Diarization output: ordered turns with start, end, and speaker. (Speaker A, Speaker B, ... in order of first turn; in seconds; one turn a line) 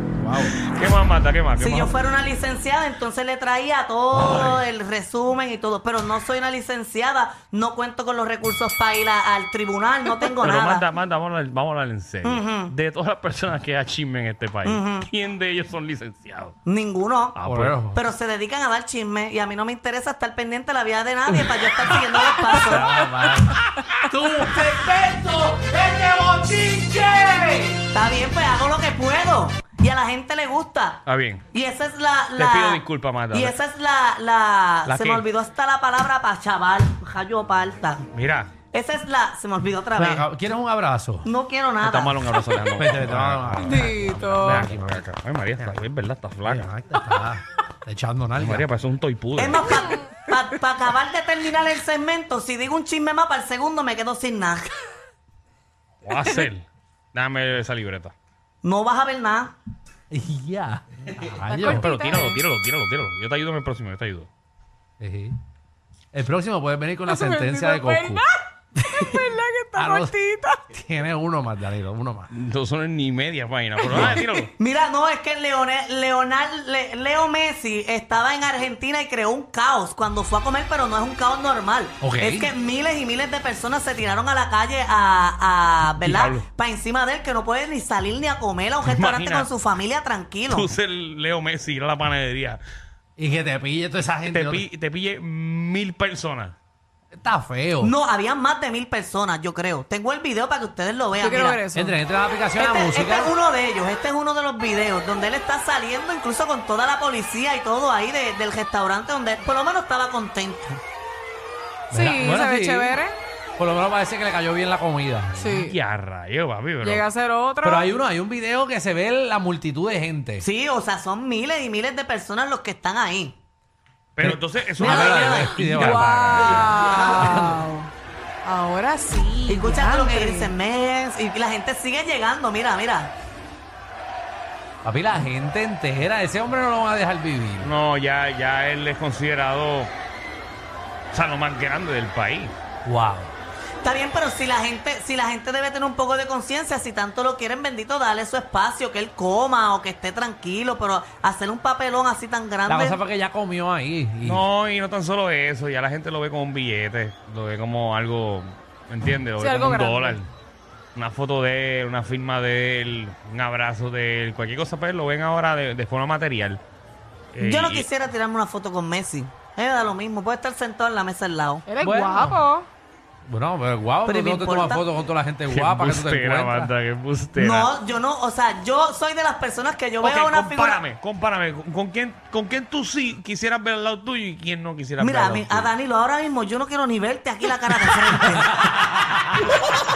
Speaker A: 0.2-0.6
Speaker B: 0.6-1.9
Speaker C: 1.6-10.8
Speaker B: 4.1-4.6
Speaker B: 10.2-16.6
Speaker C: 12.2-12.7
Speaker C: 14.6-15.1
Speaker C: 16.7-17.4
Speaker B: 17.3-17.8
Speaker A: 17.4-18.0
Speaker C: 17.9-23.0
Speaker A: 21.9-27.9
Speaker C: 27.9-31.0
Speaker B: 31.1-31.5
Speaker C: 31.5-38.1
Speaker B: 32.4-33.6
Speaker B: 34.9-35.3
Speaker B: 38.1-38.5
Speaker C: 38.7-40.3
Speaker A: 40.0-41.3
Speaker C: 41.2-42.2
Speaker B: 41.8-43.9
Speaker A: 42.8-45.0
Speaker D: 43.6-44.6
Speaker B: 44.4-46.7
Speaker A: 46.5-48.7
Speaker B: 48.4-49.8
Speaker C: 49.4-54.8
Speaker B: 56.0-58.1
Speaker C: 58.6-59.5
Speaker A: 60.1-61.9
Speaker D: 61.5-62.4
Speaker B: 61.6-64.3
Speaker A: 65.0-65.4
Speaker A: 66.1-68.2
Speaker D: 67.1-70.7
Speaker A: 69.8-70.2
Speaker A: 70.7-72.3
Speaker B: 72.3-74.5
Speaker A: 73.9-74.2
Speaker D: 74.0-74.5
Speaker C: 74.5-90.7
Speaker A: 82.0-82.5
Speaker B: 86.0-86.5
Speaker B: 88.8-89.5
Speaker B: 90.5-92.6
Speaker A: 93.2-94.7
Speaker B: 94.2-96.6
Speaker A: 97.1-97.9
Speaker C: 97.8-101.6
Speaker D: 101.1-102.0
Speaker A: 101.8-103.3
Speaker C: 102.6-110.8
Speaker A: 111.9-113.0
Speaker D: 111.9-113.2
Speaker A: 113.6-115.7
Speaker D: 115.4-115.8
Speaker B: 115.6-117.0
Speaker D: 116.8-117.9
Speaker A: 117.6-120.5
Speaker C: 120.4-123.4
Speaker B: 124.2-126.7
Speaker A: 124.2-127.6
Speaker C: 124.8-125.6
Speaker D: 125.6-127.9
Speaker D: 128.4-130.5
Speaker C: 129.5-133.1
Speaker A: 134.8-137.7
Speaker B: 137.6-139.9
Speaker B: 141.1-142.6
Speaker A: 142.8-143.3
Speaker C: 143.8-153.0
Speaker A: 152.7-154.4
Speaker B: 154.2-160.3
Speaker D: 159.4-160.2
Speaker B: 160.9-166.6
Speaker B: 167.3-167.9
Speaker C: 167.4-171.7
Speaker D: 171.7-172.7
Speaker A: 171.8-172.4
Speaker A: 173.3-176.7
Speaker C: 174.1-174.8
Speaker B: 175.5-177.7
Speaker C: 177.4-180.8
Speaker B: 180.0-185.7
Speaker C: 185.0-188.6